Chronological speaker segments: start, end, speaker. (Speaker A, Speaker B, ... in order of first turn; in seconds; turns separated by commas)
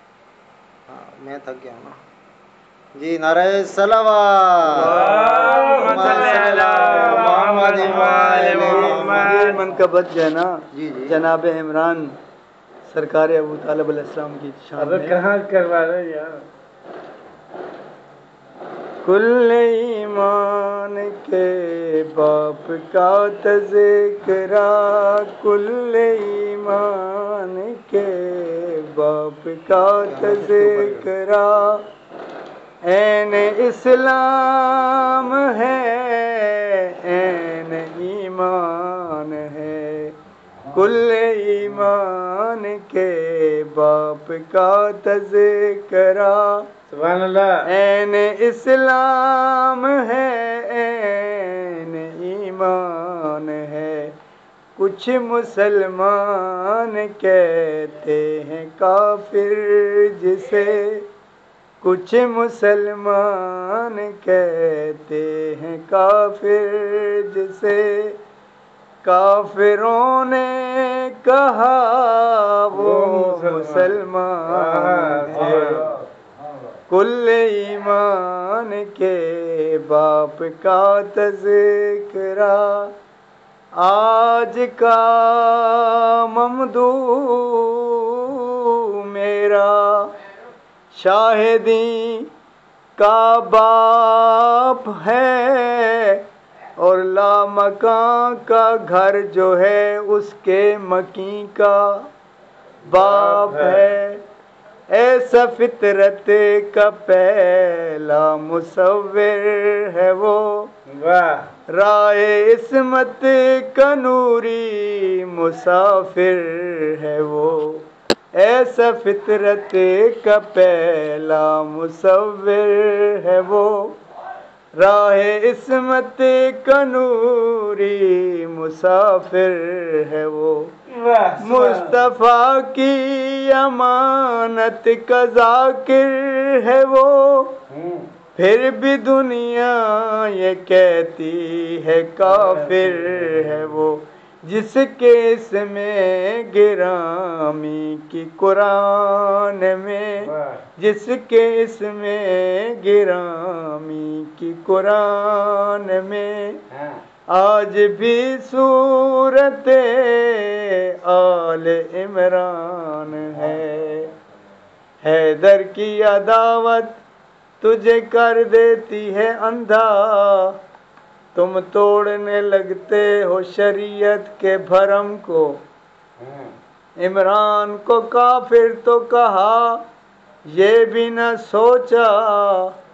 Speaker A: 0.9-2.0, Speaker A: 2.9-5.0, Speaker B: 4.7-7.2, Speaker C: 4.8-9.6, Speaker A: 5.7-9.5, Speaker B: 7.8-12.2, Speaker A: 10.7-11.1, Speaker B: 12.9-15.2, Speaker C: 14.8-16.4, Speaker B: 19.0-31.8, Speaker A: 30.0-31.1, Speaker B: 32.8-40.2, Speaker B: 40.7-46.7, Speaker C: 46.9-47.7, Speaker B: 47.6-54.1, Speaker B: 54.8-61.1, Speaker B: 61.8-68.2, Speaker B: 69.0-75.9, Speaker C: 72.7-76.0, Speaker B: 76.9-82.9, Speaker B: 83.8-90.1, Speaker B: 90.9-92.3, Speaker B: 93.0-96.2, Speaker B: 96.8-102.1, Speaker B: 102.9-104.2, Speaker C: 102.9-103.9, Speaker B: 104.9-110.7, Speaker C: 110.9-111.5, Speaker B: 111.7-124.0, Speaker B: 124.8-130.7, Speaker C: 130.9-132.0, Speaker B: 131.4-137.6, Speaker C: 137.7-138.1, Speaker B: 138.3-156.6, Speaker C: 142.2-143.7, Speaker C: 150.2-150.6, Speaker C: 156.7-157.0, Speaker B: 157.3-164.1, Speaker B: 165.0-167.0, Speaker B: 167.6-170.6, Speaker B: 171.3-175.6, Speaker C: 176.2-176.5, Speaker B: 177.0-179.8, Speaker B: 180.5-182.7